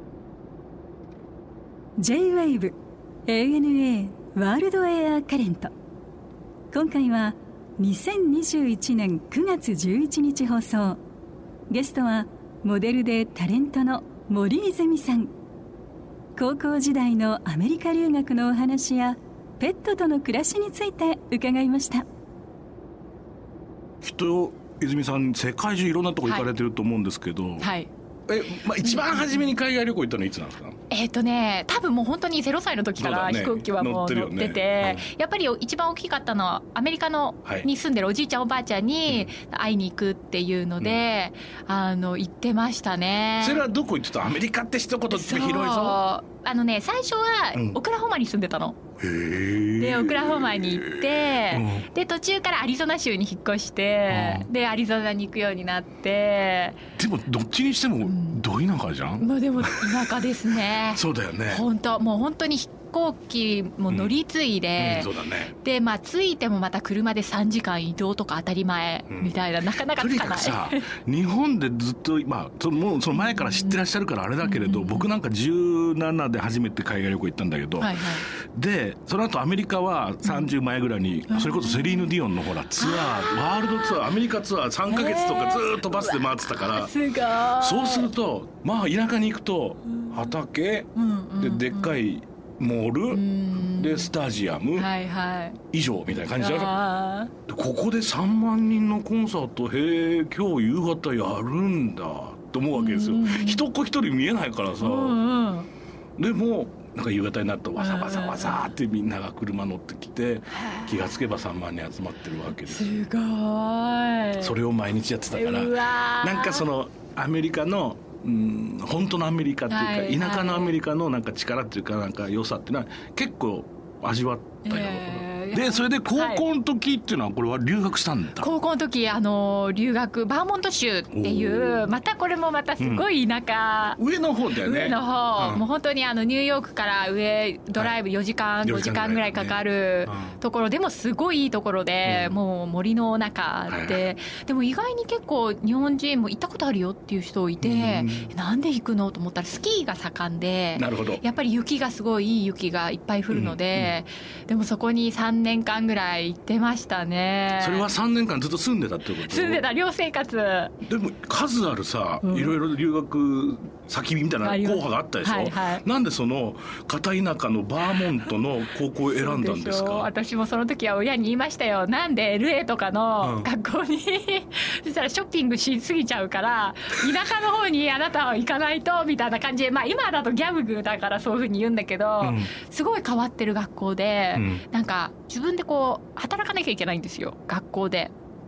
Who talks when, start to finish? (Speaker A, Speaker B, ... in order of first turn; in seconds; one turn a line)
Speaker A: 2.0-2.7
Speaker A: 3.3-5.7
Speaker A: 6.7-11.0
Speaker A: 11.7-15.3
Speaker A: 16.4-22.1
Speaker B: 24.0-27.7
Speaker C: 27.6-27.9
Speaker B: 28.3-30.8
Speaker C: 29.0-29.3
Speaker C: 30.9-43.6
Speaker B: 33.0-35.1
Speaker B: 43.4-46.0
Speaker C: 45.1-48.8
Speaker B: 49.0-51.9
Speaker C: 49.8-56.8
Speaker B: 54.1-54.5
Speaker B: 57.0-61.6
Speaker C: 58.0-58.4
Speaker C: 59.2-65.1
Speaker B: 64.8-65.5
Speaker C: 65.6-70.9
Speaker B: 69.1-69.4
Speaker B: 69.9-86.9
Speaker C: 73.2-73.7
Speaker C: 74.4-75.0
Speaker C: 77.8-78.2
Speaker C: 80.2-80.5
Speaker C: 81.3-82.1
Speaker C: 82.8-84.0
Speaker C: 84.9-88.1
Speaker B: 87.5-94.9
Speaker C: 91.0-92.0
Speaker C: 93.1-94.1
Speaker C: 94.7-95.6
Speaker B: 95.7-96.8
Speaker C: 96.3-97.3
Speaker B: 97.5-105.2
Speaker C: 102.7-103.7
Speaker C: 104.8-105.7
Speaker B: 106.2-113.0
Speaker C: 107.8-108.7
Speaker C: 110.5-110.9
Speaker C: 112.6-114.5
Speaker B: 114.4-128.5
Speaker C: 115.3-116.6
Speaker C: 119.7-120.7
Speaker C: 124.6-126.4
Speaker C: 128.4-134.0
Speaker B: 131.1-131.9
Speaker B: 132.8-133.1
Speaker B: 134.0-135.6
Speaker C: 134.6-157.9
Speaker B: 138.6-140.3
Speaker B: 142.0-142.3
Speaker B: 143.7-144.0
Speaker B: 147.6-148.3
Speaker B: 150.7-151.2
Speaker B: 153.3-153.9
Speaker B: 157.6-159.6
Speaker C: 159.2-160.7
Speaker B: 160.8-170.1
Speaker C: 162.2-162.5
Speaker C: 164.4-165.8
Speaker C: 169.0-188.1
Speaker B: 173.2-173.5
Speaker B: 182.2-182.5
Speaker B: 184.3-184.6